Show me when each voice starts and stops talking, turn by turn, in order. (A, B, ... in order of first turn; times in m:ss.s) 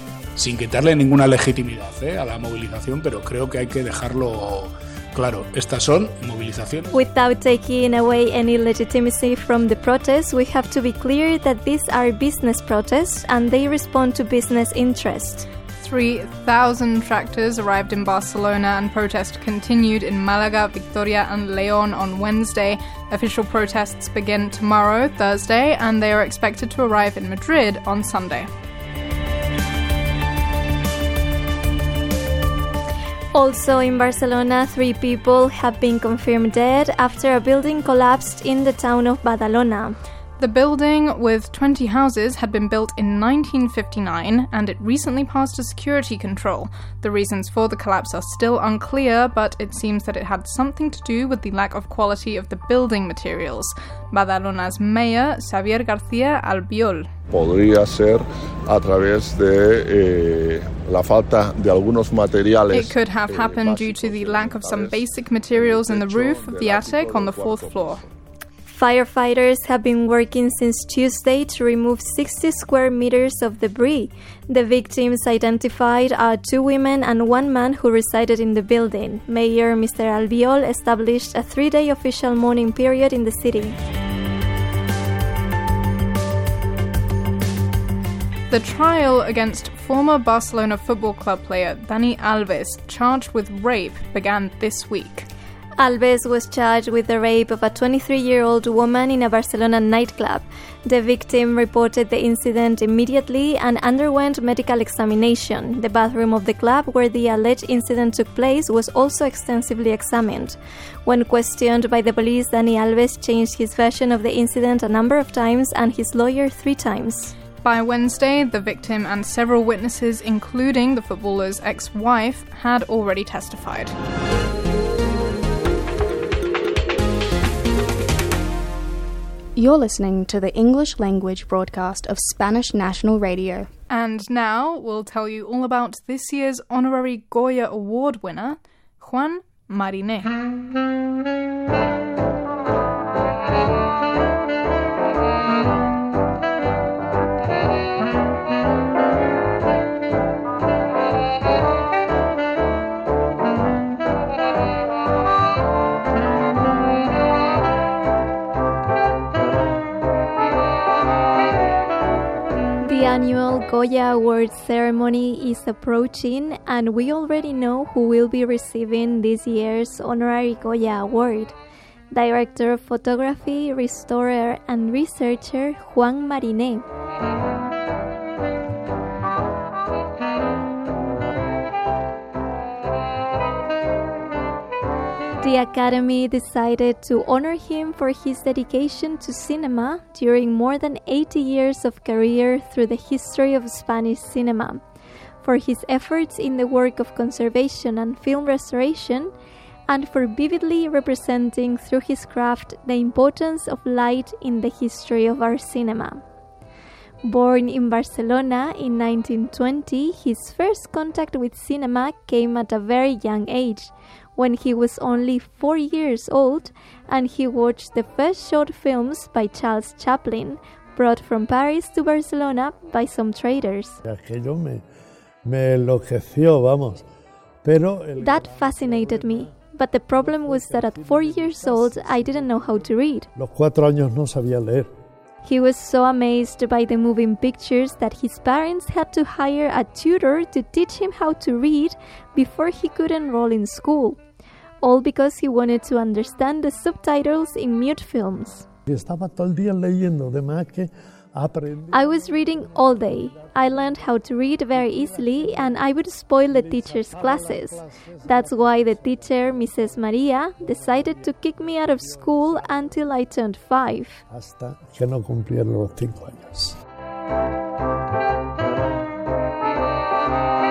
0:00.4-0:06.9 A
0:06.9-0:15.5 B
0:15.8-0:28.5 C
0:33.3-0:40.0 B
0:40.4-0:57.1 C
0:57.3-1:08.0 D
1:02.7-1:08.0 C
1:08.7-1:23.8 B
1:28.5-1:35.3 C
1:35.8-1:57.3 B
1:57.6-2:03.9 C
2:09.6-2:13.7 E
2:13.9-2:20.3 C
2:42.8-2:51.6 B
2:52.1-2:56.8 B
3:05.4-3:14.8 B
3:15.4-3:19.3 B
3:19.9-3:26.2 B
3:27.2-3:44.0 B
3:44.0-3:44.8 F
3:45.4-3:47.1 F
3:47.6-3:49.6 F
3:48.2-3:53.3 B
3:50.2-3:54.9 F
3:55.4-4:04.2 B
4:04.8-4:08.7 B
4:08.9-4:14.1 F
4:11.9-4:24.2 B
4:14.7-4:15.8 F
4:16.5-4:19.6 F
4:20.6-4:23.1 F
4:24.3-4:26.8 F